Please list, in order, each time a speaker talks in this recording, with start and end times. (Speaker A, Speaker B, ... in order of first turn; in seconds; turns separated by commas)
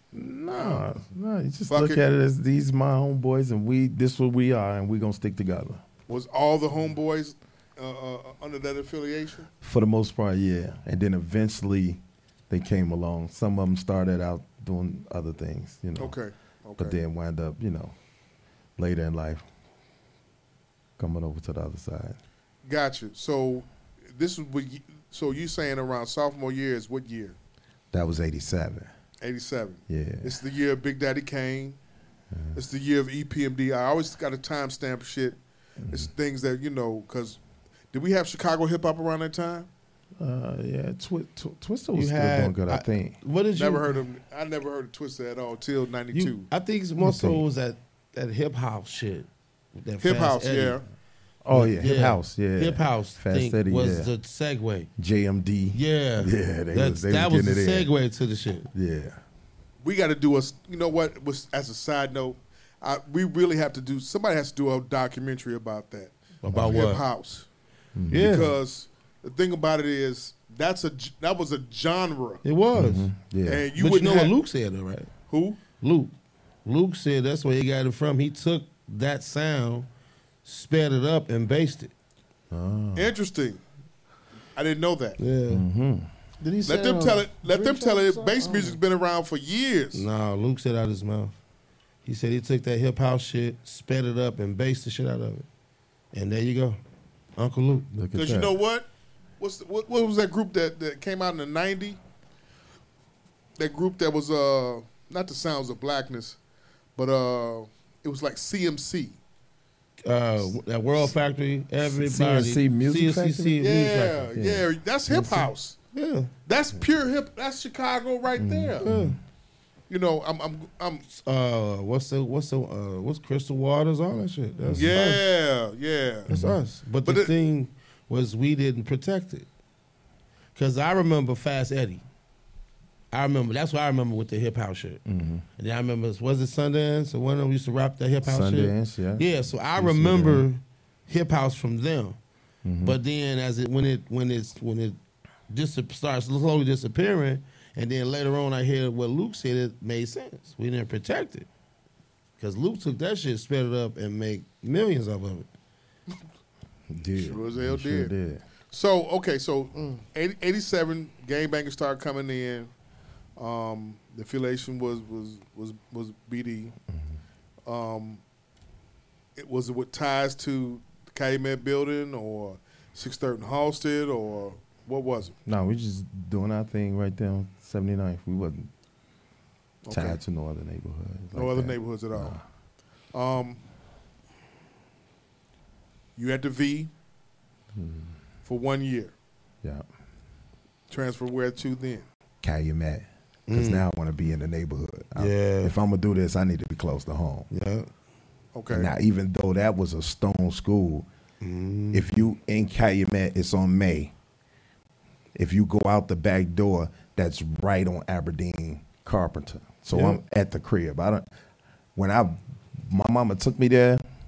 Speaker A: 0.1-5.8, Speaker B: 0.5-0.8, Speaker B: 1.7-2.0, Speaker B: 6.1-9.5, Speaker A: 9.6-16.1, Speaker B: 16.0-17.0, Speaker A: 16.8-17.9, Speaker A: 18.8-19.5, Speaker A: 21.0-22.2, Speaker B: 22.6-27.4, Speaker A: 27.9-28.9, Speaker B: 29.2-31.8, Speaker A: 29.9-30.4, Speaker A: 32.3-32.6, Speaker B: 32.5-37.4, Speaker A: 35.8-36.1, Speaker B: 37.9-39.7, Speaker A: 40.2-43.2, Speaker C: 41.9-44.0, Speaker B: 43.5-46.5, Speaker C: 46.1-50.8, Speaker A: 47.0-47.5, Speaker B: 50.0-50.8, Speaker A: 51.5-54.1, Speaker C: 51.5-54.9, Speaker A: 55.0-57.9, Speaker C: 55.7-58.7, Speaker A: 58.7-59.2, Speaker B: 59.8-66.1, Speaker C: 66.4-67.0, Speaker A: 66.5-66.8, Speaker B: 66.7-67.5, Speaker A: 68.0-68.5, Speaker C: 68.1-68.6, Speaker B: 68.2-72.4, Speaker C: 72.5-73.1, Speaker A: 72.7-73.7, Speaker B: 73.5-74.3, Speaker C: 73.8-75.1, Speaker B: 75.3-75.6, Speaker C: 75.8-76.1, Speaker C: 76.7-79.9, Speaker C: 80.5-81.9, Speaker A: 82.5-83.1, Speaker B: 83.0-83.6, Speaker B: 84.6-85.2, Speaker C: 85.2-85.7, Speaker A: 85.5-86.1, Speaker D: 86.4-88.8, Speaker B: 86.7-90.1, Speaker C: 89.9-91.4, Speaker C: 92.0-95.5, Speaker C: 96.1-96.8, Speaker C: 97.4-97.9, Speaker A: 98.0-98.6, Speaker B: 98.1-98.9, Speaker B: 99.4-102.0, Speaker B: 103.6-106.4, Speaker B: 107.0-109.2, Speaker C: 110.0-114.3, Speaker A: 111.8-113.7, Speaker B: 113.6-115.8, Speaker A: 114.3-115.5, Speaker C: 115.9-116.3, Speaker B: 116.5-118.8, Speaker A: 118.4-119.2, Speaker C: 118.8-119.2, Speaker B: 119.9-121.0, Speaker C: 121.1-125.3, Speaker A: 124.6-125.0, Speaker B: 124.8-126.3, Speaker C: 126.3-129.5, Speaker A: 126.3-126.6, Speaker B: 127.0-127.3, Speaker C: 130.6-132.0, Speaker C: 133.1-135.0, Speaker A: 135.1-135.4, Speaker C: 135.6-142.2, Speaker A: 138.2-140.5, Speaker A: 142.7-143.0, Speaker C: 142.8-145.0, Speaker C: 145.5-151.5, Speaker C: 152.4-155.5, Speaker A: 156.9-158.4, Speaker B: 157.2-158.1, Speaker B: 158.7-162.7, Speaker D: 159.8-160.0, Speaker B: 163.4-166.8, Speaker B: 167.7-168.2, Speaker B: 169.4-175.3, Speaker A: 175.5-178.7, Speaker B: 179.8-180.2, Speaker A: 179.9-182.4, Speaker B: 181.3-182.4, Speaker B: 183.1-183.6, Speaker B: 186.2-186.9, Speaker A: 187.8-188.2, Speaker B: 188.4-189.1, Speaker B: 190.9-192.1, Speaker A: 192.4-197.5, Speaker C: 193.5-193.8, Speaker C: 195.2-195.8, Speaker C: 197.5-197.9, Speaker B: 198.5-198.9, Speaker A: 198.7-201.1, Speaker C: 201.4-202.1, Speaker A: 201.9-204.1, Speaker A: 205.3-211.3, Speaker C: 209.9-210.2, Speaker A: 211.9-214.0